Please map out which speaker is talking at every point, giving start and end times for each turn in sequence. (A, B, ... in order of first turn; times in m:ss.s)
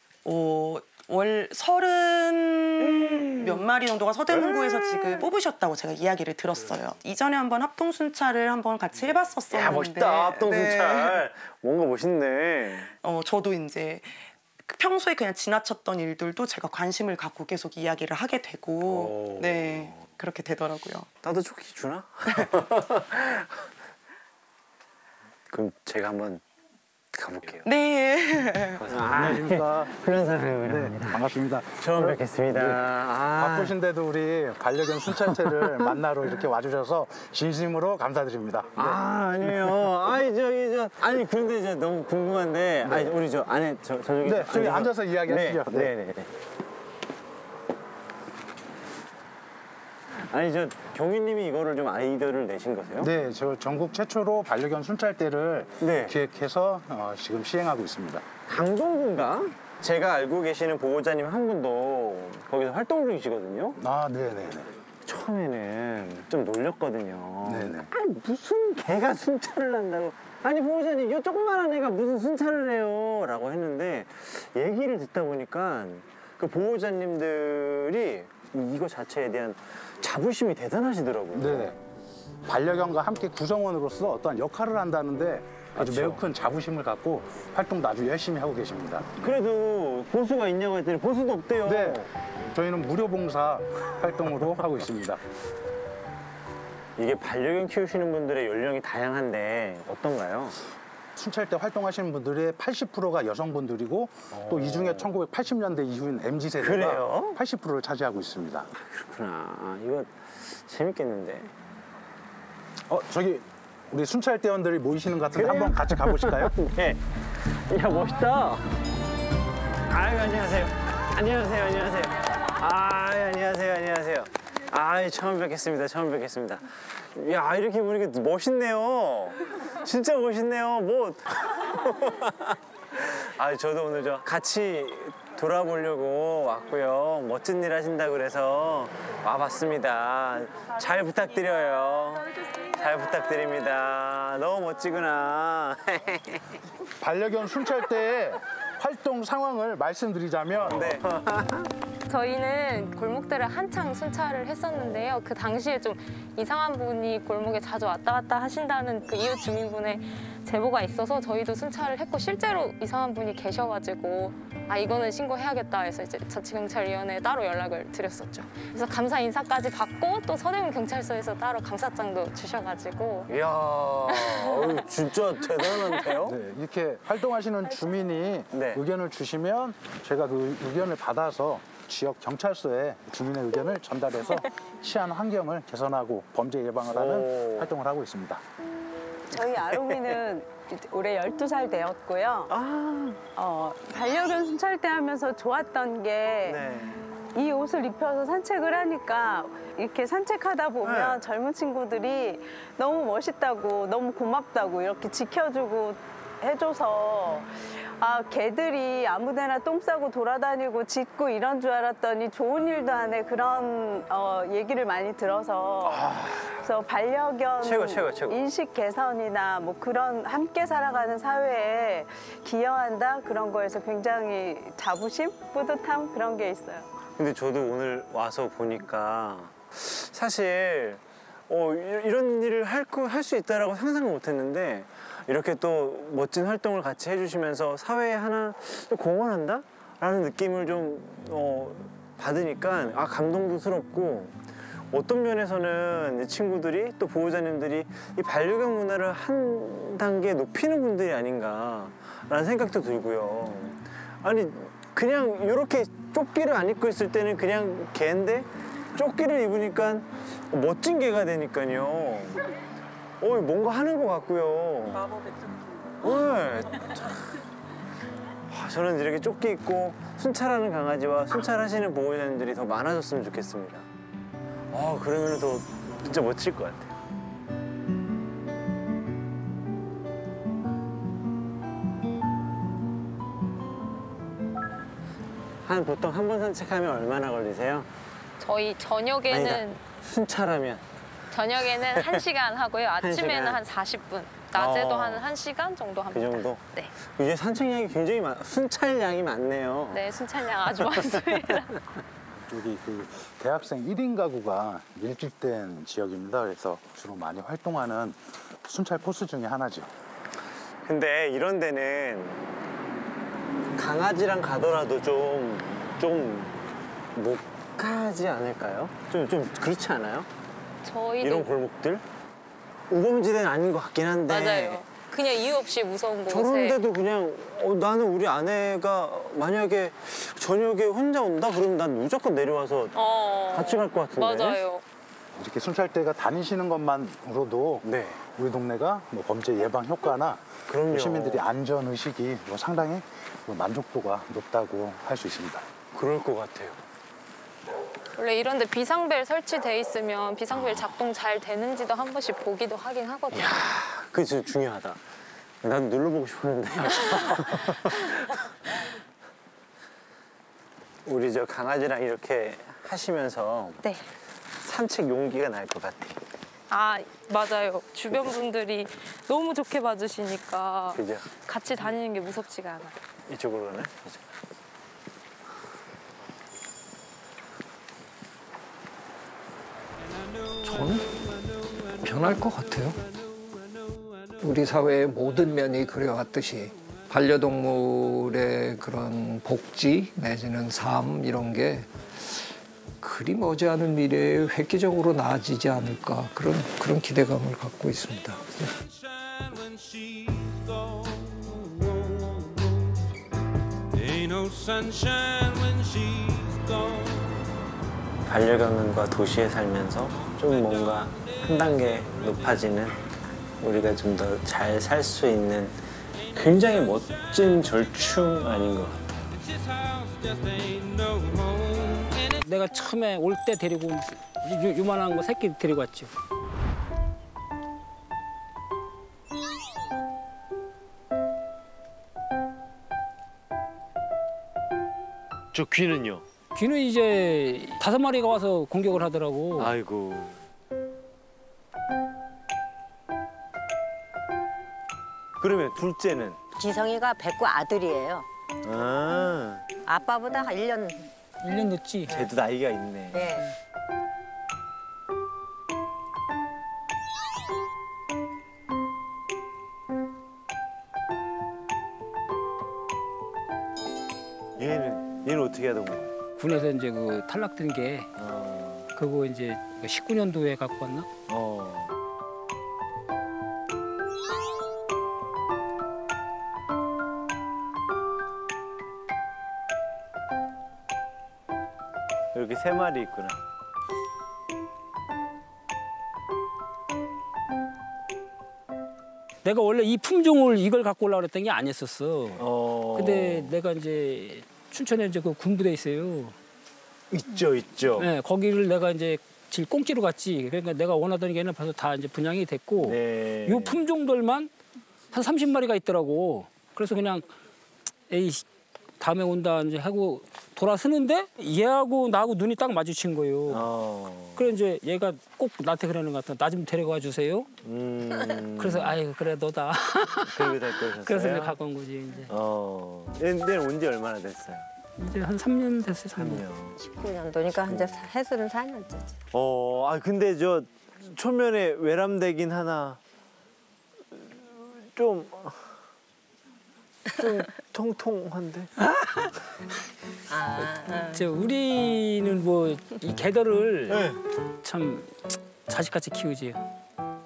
0:00.2-0:11.2 A
0:03.0-0:03.6 B
0:04.3-0:05.2 B
0:09.5-0:12.9 B
0:13.0-0:21.1 A
0:18.8-0:20.0 B
0:21.2-0:23.6 B
0:25.5-0:26.4 B
0:27.1-0:27.7 B
0:27.6-0:28.8 A
0:28.8-0:31.2 B
0:28.9-0:29.9 C
0:30.6-0:32.8 C
0:31.8-0:33.7 B
0:33.4-0:39.0 C
0:35.2-0:35.9 B
0:38.8-0:46.3 B
0:42.8-0:43.1 C
0:44.2-0:45.9 C
0:50.1-0:53.1 B
0:53.0-0:58.2 C
0:55.8-0:56.1 B
0:58.4-1:03.8 B
1:03.8-1:04.7 C
1:05.0-1:21.7 B
1:07.4-1:07.9 C
1:21.3-1:21.8 C
1:22.4-1:29.1 C
1:25.8-1:26.2 B
1:29.2-1:32.1 B
1:31.6-1:35.2 C
1:37.0-1:40.6 B
1:41.1-1:48.7 C
1:44.3-1:45.1 B
1:46.6-1:47.4 B
1:48.7-1:51.5 B
1:52.9-1:56.5 C
1:55.3-1:57.0 B
1:57.5-1:58.7 B
1:59.9-2:26.5 B
2:27.0-2:31.0 C
2:30.7-2:31.7 B
2:32.0-2:53.3 D
2:53.3-2:56.4 B
2:54.1-2:54.8 D
2:56.2-3:08.4 C
2:58.5-2:58.8 B
3:06.9-3:07.7 B
3:09.3-3:12.5 E
3:09.7-3:10.2 B
3:12.5-3:13.2 B
3:13.3-3:16.6 E
3:16.4-3:17.0 B
3:17.3-3:46.9 E
3:20.8-3:21.3 B
3:35.8-3:36.5 B
3:37.6-3:38.4 B
3:47.2-4:22.4 B
4:23.2-4:25.1 B
4:26.0-4:27.4 B
4:28.5-4:33.9 B
4:34.7-4:37.0 B
4:45.6-4:47.9 B
4:48.4-4:49.8 D
4:49.3-4:50.9 B
4:51.3-4:56.9 D
4:53.0-4:53.6 B
4:54.5-4:55.2 B
4:56.1-5:00.1 B
4:59.9-5:01.7 D
5:00.8-5:01.2 B
5:02.4-5:09.9 C
5:10.8-5:12.5 B
5:13.7-5:20.3 B
5:20.8-5:21.6 D
5:21.2-5:22.0 B
5:22.9-5:24.8 B
5:24.3-5:26.8 D
5:26.3-5:32.9 B
5:32.9-5:34.8 D
5:33.5-5:34.6 B
5:35.4-5:45.6 C
5:37.8-5:38.2 B
5:40.7-5:41.4 B
5:45.9-5:46.8 B
5:48.1-5:53.6 D
5:50.5-5:50.8 B
5:53.3-5:55.0 B
5:55.6-5:58.4 B
6:01.0-6:03.8 B
6:04.6-6:06.2 B
6:06.7-6:12.9 D
6:10.9-6:11.3 B
6:13.3-6:14.3 B
6:20.6-6:21.2 F
6:21.8-6:23.2 F
6:24.4-6:32.4 F
6:33.0-6:38.7 F
6:48.2-6:53.0 B
6:53.6-6:59.3 B
7:02.2-7:06.1 G
7:15.5-7:16.2 B
7:16.5-7:19.7 G
7:19.6-7:20.4 B
7:25.4-7:26.4 B
7:26.6-7:28.3 H
7:28.6-7:29.6 B
7:29.8-7:31.1 H
7:31.4-7:32.1 G
7:32.1-7:33.4 B
7:33.1-7:33.4 H
7:44.6-7:46.1 B
7:46.4-7:48.1 G
7:48.2-7:48.9 B
7:49.0-7:51.1 G
7:51.3-7:51.9 B
8:02.3-8:03.4 B
8:09.4-8:16.4 G
8:12.4-8:13.5 B
8:17.1-8:18.1 B
8:18.0-8:24.5 G
8:22.8-8:23.8 B
8:25.1-8:27.3 G
8:28.1-8:28.4 G
8:29.0-8:33.7 G
8:33.5-8:34.5 B
8:34.4-8:37.5 G
8:37.6-8:38.9 B
8:38.6-8:42.3 G
8:40.3-8:41.6 B
8:42.3-8:44.7 B
8:45.0-8:46.4 G
8:46.1-8:46.8 B
8:46.8-8:49.2 H
8:47.7-8:48.0 B
8:49.3-8:53.0 B
8:54.1-8:55.8 B
8:57.2-8:58.7 B
9:00.3-9:01.3 H
9:01.1-9:05.1 G
9:03.9-9:04.2 B
9:05.7-9:06.6 G